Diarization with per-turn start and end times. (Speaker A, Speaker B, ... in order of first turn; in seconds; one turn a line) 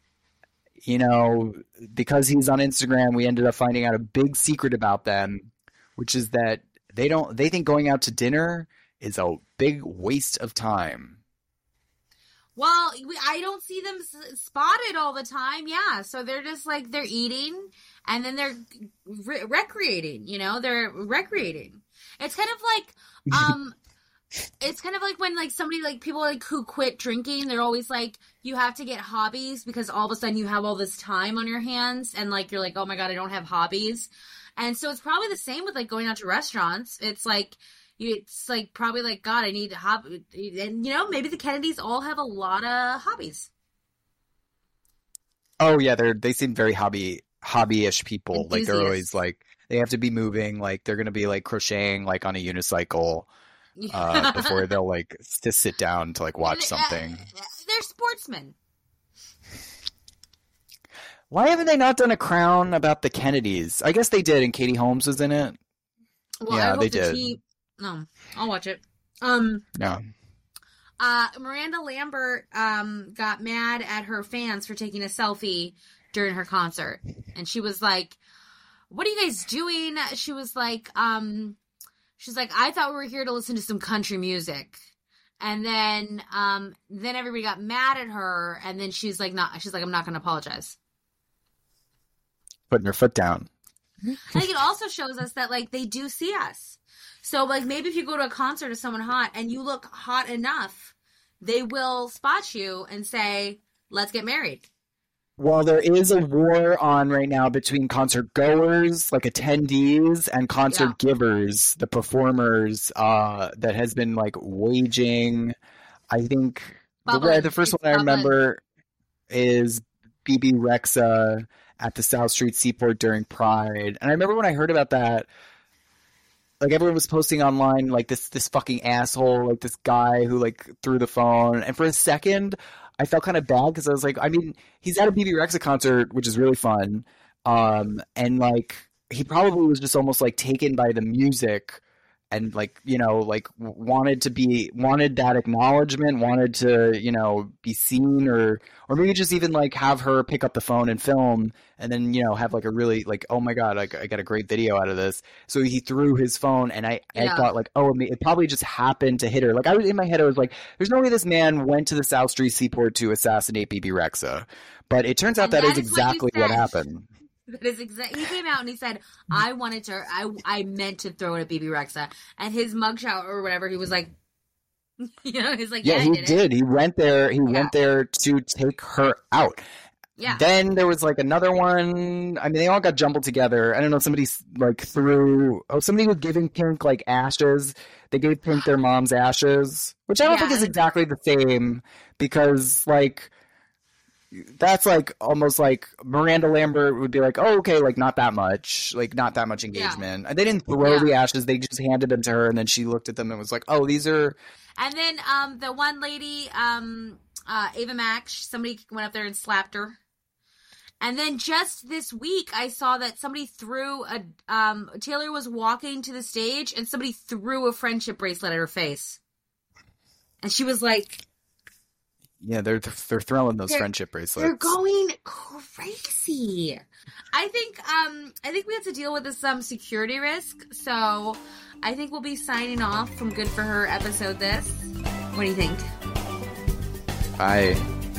Speaker A: 0.8-11.2
Speaker B: 12.6-23.8
Speaker B: 24.6-43.5
Speaker A: 45.6-53.3
Speaker B: 48.3-49.1
Speaker B: 53.8-54.7
Speaker A: 53.9-57.2
Speaker B: 56.4-58.5
Speaker A: 61.3-65.6
Speaker B: 66.4-69.6
Speaker A: 66.5-67.4
Speaker A: 69.8-70.0
Speaker B: 71.0-78.2
Speaker B: 78.9-81.6
Speaker B: 82.2-84.8
Speaker B: 85.4-90.8
Speaker A: 92.7-93.5
Speaker B: 94.3-104.7
Speaker A: 105.4-115.5
Speaker A: 116.1-118.6
Speaker B: 117.1-118.3
Speaker A: 119.3-125.3
Speaker A: 126.6-167.1
Speaker B: 157.2-157.5
Speaker B: 165.4-166.8
Speaker B: 167.5-174.1
Speaker B: 175.0-176.4
Speaker A: 175.8-179.6
Speaker B: 177.5-177.7
Speaker B: 180.2-180.4
Speaker A: 180.3-193.3
Speaker B: 190.2-190.7
Speaker A: 194.3-204.4
Speaker B: 199.7-200.0
Speaker B: 200.8-201.1
Speaker B: 204.8-210.0
Speaker B: 211.0-219.2
Speaker B: 220.4-221.2
Speaker A: 222.4-224.8
Speaker B: 223.7-235.9
Speaker A: 237.4-237.9